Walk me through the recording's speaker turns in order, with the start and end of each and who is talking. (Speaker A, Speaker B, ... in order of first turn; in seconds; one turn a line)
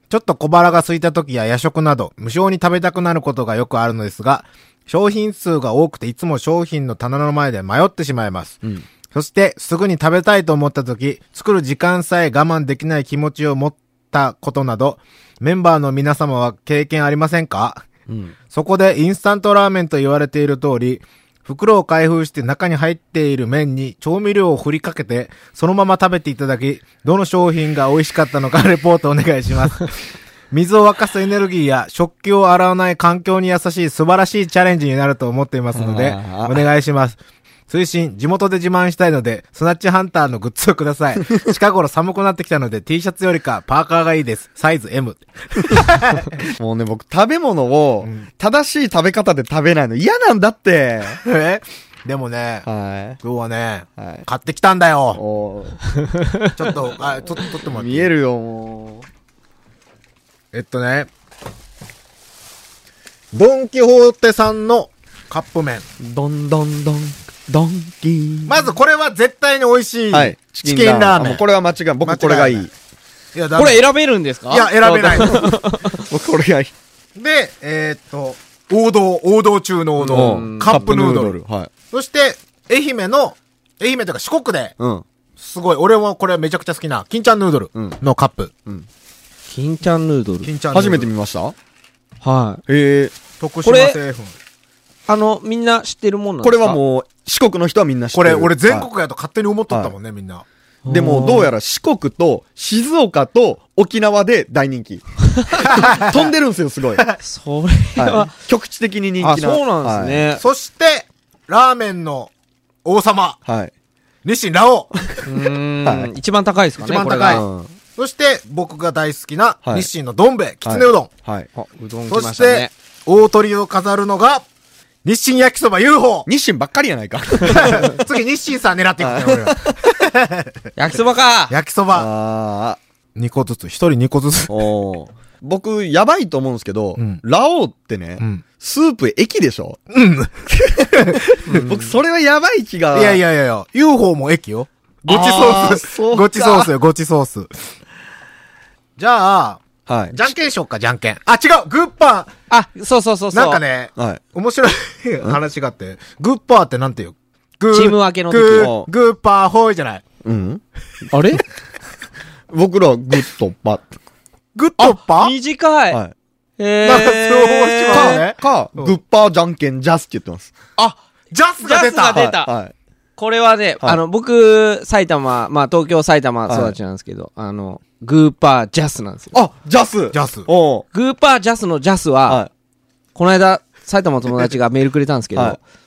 Speaker A: 0.1-8.6
Speaker A: 9.1-17.9
Speaker B: 18.1-18.4
Speaker A: 18.5-29.9
Speaker A: 30.5-37.2
Speaker B: 35.8-36.6
Speaker A: 37.7-46.4
Speaker B: 46.6-51.2
Speaker A: 51.2-52.7
Speaker B: 52.7-53.2
Speaker A: 53.2-55.2
Speaker B: 54.0-54.3
Speaker B: 55.1-55.8
Speaker C: 56.2-56.5
Speaker A: 56.5-58.1
Speaker B: 57.6-59.0
Speaker A: 60.5-61.1
Speaker A: 63.3-65.8
Speaker B: 66.0-68.6
Speaker A: 68.5-71.4
Speaker B: 70.1-72.7
Speaker A: 72.0-72.7
Speaker A: 73.3-73.9
Speaker C: 73.6-76.0
Speaker A: 74.5-75.5
Speaker B: 74.8-76.7
Speaker A: 77.2-81.4
Speaker C: 80.0-80.9
Speaker B: 80.1-81.7
Speaker A: 81.9-84.8
Speaker B: 84.8-85.0
Speaker A: 85.4-88.5
Speaker C: 89.5-90.5
Speaker A: 90.4-91.1
Speaker B: 90.7-91.5
Speaker C: 92.2-92.6
Speaker B: 92.7-93.2
Speaker A: 93.4-94.3
Speaker C: 93.7-94.0
Speaker C: 95.1-96.8
Speaker B: 96.4-98.9
Speaker A: 98.1-100.5
Speaker C: 100.8-101.5
Speaker B: 100.9-105.0
Speaker C: 105.4-105.7
Speaker A: 105.7-106.3
Speaker B: 105.9-107.1
Speaker C: 107.2-108.3
Speaker B: 108.0-110.2
Speaker C: 109.2-110.4
Speaker A: 110.4-112.3
Speaker A: 112.8-113.4
Speaker B: 113.5-113.7
Speaker A: 114.2-114.9
Speaker C: 115.2-117.4
Speaker B: 115.8-116.1
Speaker A: 116.8-121.1
Speaker B: 117.2-117.7
Speaker B: 119.6-119.9
Speaker B: 120.7-121.5
Speaker C: 121.5-122.7
Speaker A: 122.1-124.5
Speaker A: 125.0-126.3
Speaker B: 126.3-128.0
Speaker A: 127.4-130.5
Speaker B: 129.0-129.8
Speaker C: 130.8-131.6
Speaker A: 131.5-132.1
Speaker B: 131.9-132.8
Speaker A: 133.2-134.7
Speaker B: 134.5-139.8
Speaker A: 137.0-137.2
Speaker A: 138.2-138.4
Speaker A: 139.9-141.7
Speaker B: 140.5-143.2
Speaker A: 142.9-147.5
Speaker B: 145.1-146.7
Speaker A: 149.0-152.3
Speaker B: 149.9-150.2
Speaker C: 152.5-153.6
Speaker A: 153.3-160.0
Speaker C: 157.7-158.7
Speaker B: 158.5-158.9
Speaker B: 160.2-160.6
Speaker C: 161.1-161.4
Speaker B: 162.5-163.9
Speaker A: 164.6-165.3
Speaker C: 164.8-166.0
Speaker C: 166.6-168.2
Speaker A: 166.8-169.0
Speaker B: 167.9-170.6
Speaker A: 171.3-172.3
Speaker C: 171.6-172.5
Speaker B: 172.1-172.7
Speaker C: 173.2-179.4
Speaker B: 176.5-176.8
Speaker B: 179.3-180.9
Speaker A: 180.1-180.5
Speaker C: 180.9-182.4
Speaker C: 183.2-185.6